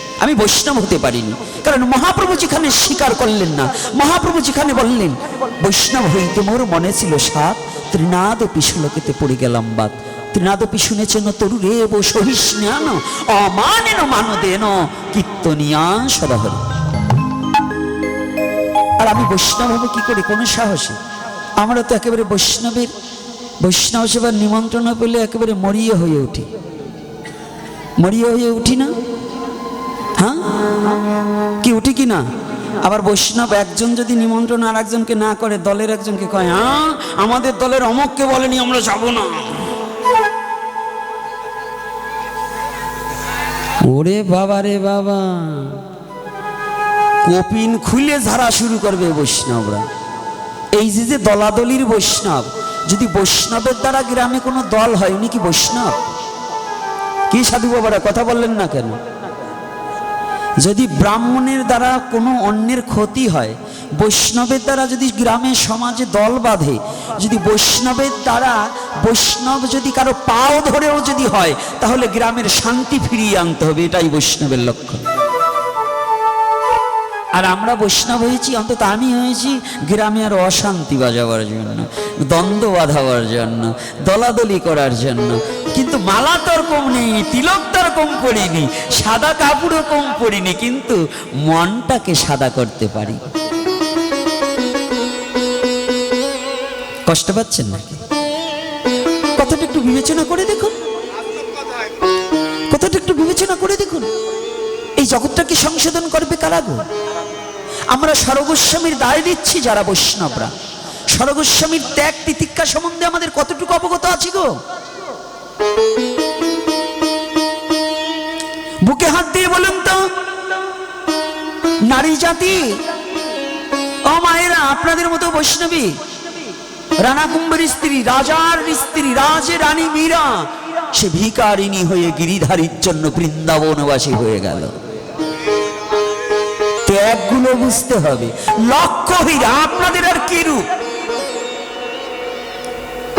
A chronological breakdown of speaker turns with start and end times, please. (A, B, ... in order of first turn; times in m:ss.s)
0:00.2-0:16.6 A
0:19.0-0:21.0 A
0:21.6-0:22.9 A
0:23.6-0:26.5 A
0:28.0-0:29.0 A
0:30.2-0:30.6 A
0:31.6-0:32.2 A
0:32.8-0:39.7 A
0:43.8-0:45.8 A
0:47.2-0:49.9 A
0:50.8-0:56.0 A
0:57.3-0:59.0 A
1:00.6-1:15.0 A
1:17.3-1:33.2 A
1:37.1-1:38.0 A
1:39.4-1:40.8 A
1:42.7-1:44.1 A
1:45.0-1:46.8 A
1:47.9-1:50.5 A
1:51.1-1:54.6 A
1:58.8-2:00.2 A
2:01.8-2:02.8 A
2:04.0-2:06.0 A
2:07.0-2:14.8 A
2:16.8-2:20.7 A